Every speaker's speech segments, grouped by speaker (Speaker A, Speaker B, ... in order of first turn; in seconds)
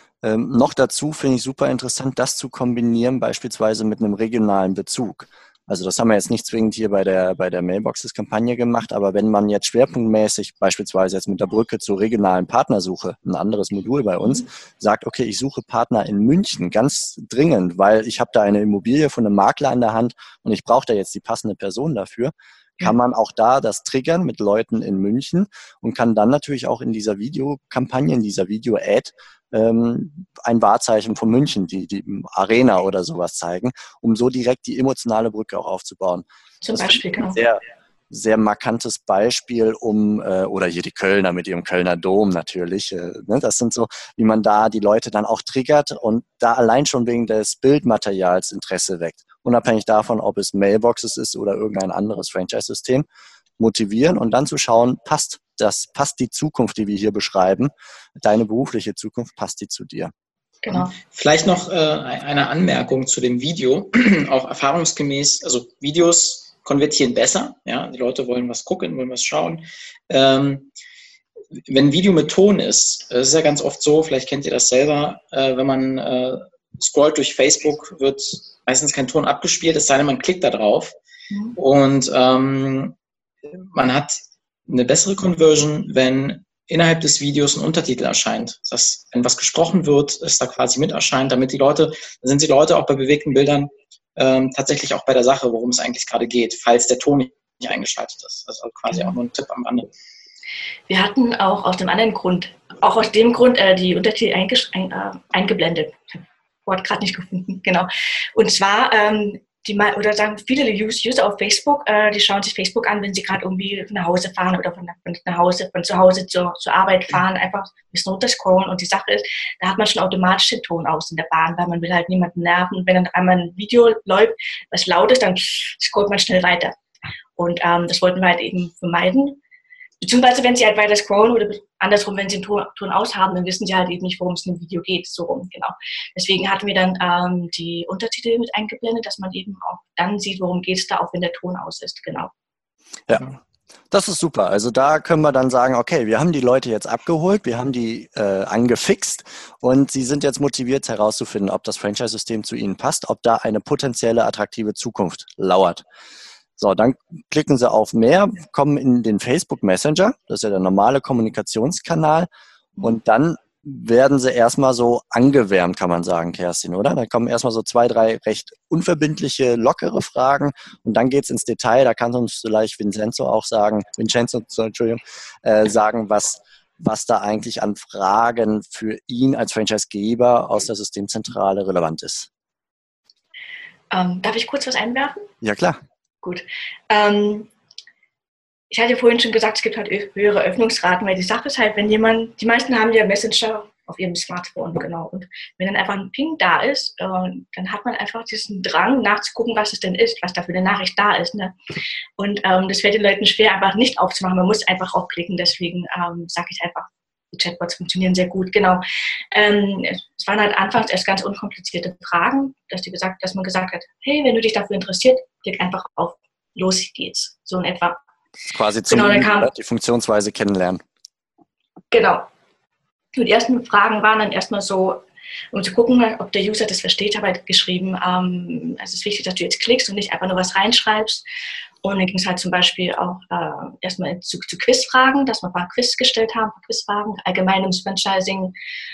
Speaker A: 0.2-53.0, 53.6-60.1, 143.1-143.3, 143.9-155.8, 156.6-162.3, 162.8-182.3, 185.4-185.8, 218.5-220.8
Speaker B: 36.6-37.4, 60.6-60.9, 81.3-81.6, 100.9-126.7, 127.3-129.4, 130.0-142.3, 183.9-185.2, 186.2-187.5, 188.7-201.5, 202.2-218.0, 218.9-219.5, 221.9-222.2, 223.1-231.2, 231.8-238.5
Speaker C: 60.7-70.7, 71.7-81.0, 81.5-82.9, 83.5-99.9